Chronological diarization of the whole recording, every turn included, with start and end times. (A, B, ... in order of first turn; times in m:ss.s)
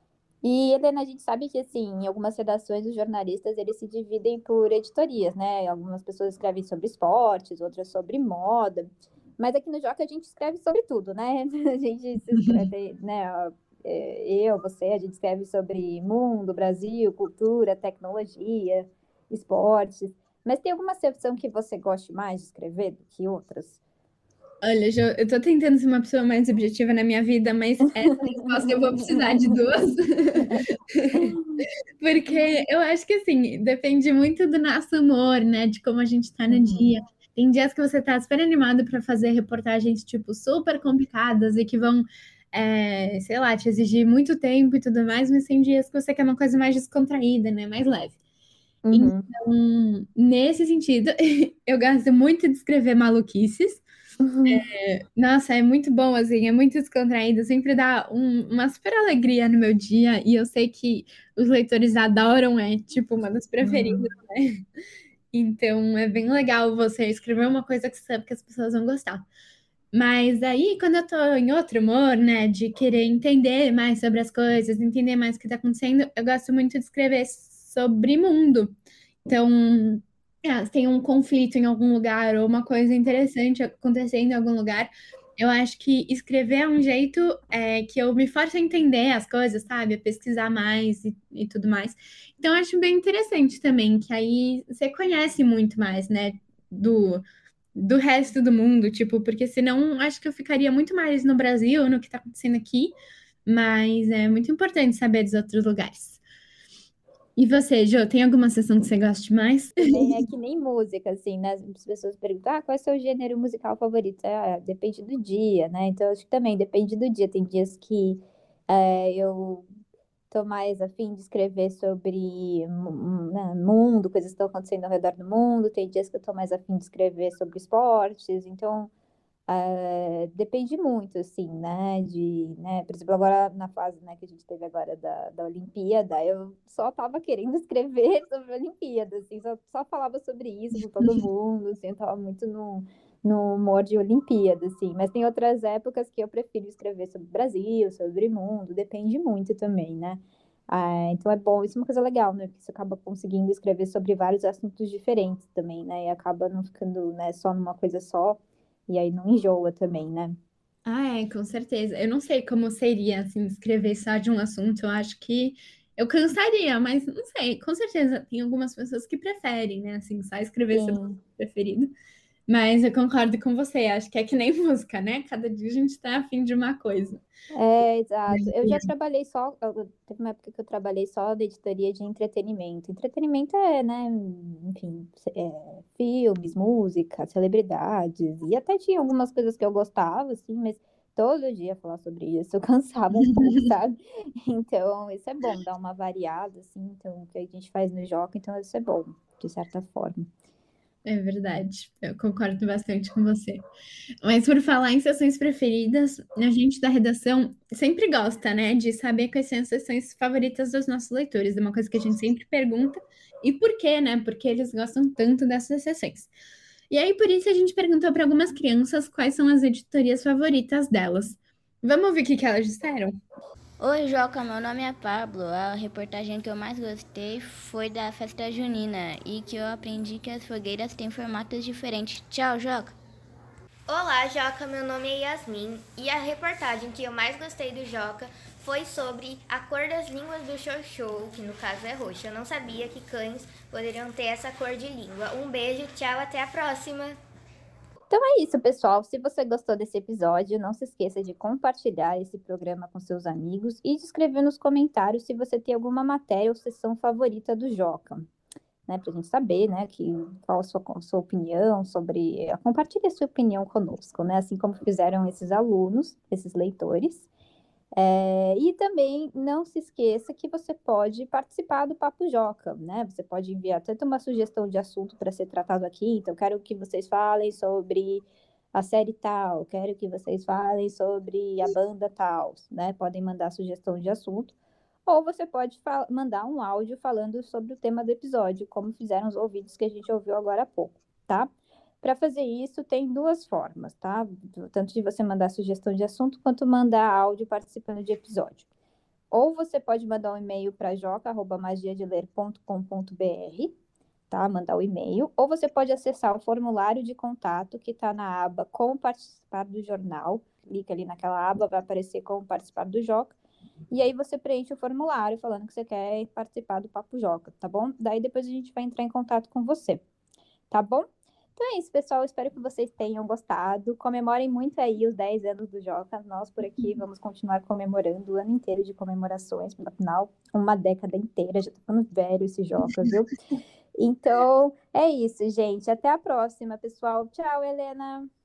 0:00.4-0:23.8 A
0:24.6-0:31.4 B
0:30.5-0:31.6 A
0:32.0-0:48.2 B
0:36.5-0:36.9 A
0:48.8-0:49.3 A
0:48.9-0:53.8 B
0:54.2-0:54.6 A
0:54.5-1:04.6 B
1:03.6-1:04.1 A
1:05.3-1:09.2 B
1:09.9-1:18.7 B
1:19.2-1:37.2 B
1:37.8-1:42.9 B
1:43.5-1:46.2 B
1:47.4-1:50.1 B
1:49.8-1:59.7 A
2:00.3-2:08.9 A
2:09.5-2:40.4 A
2:40.9-2:51.9 B
2:50.7-2:51.2 A
2:52.5-2:57.2 B
2:57.5-3:20.3 A
2:58.3-2:58.9 B
3:21.1-3:23.6 B
3:24.2-3:36.3 B
3:36.9-3:43.1 B
3:43.8-3:53.0 C
3:53.9-4:07.2 D
4:08.1-4:18.2 A
4:18.9-4:27.3 A
4:28.0-4:44.6 A
4:45.1-4:51.5 A
4:52.0-4:58.7 A
4:59.3-5:03.7 A
5:04.3-5:13.3 A
5:13.9-5:20.0 A
5:20.7-5:33.3 A
5:34.0-5:38.3 A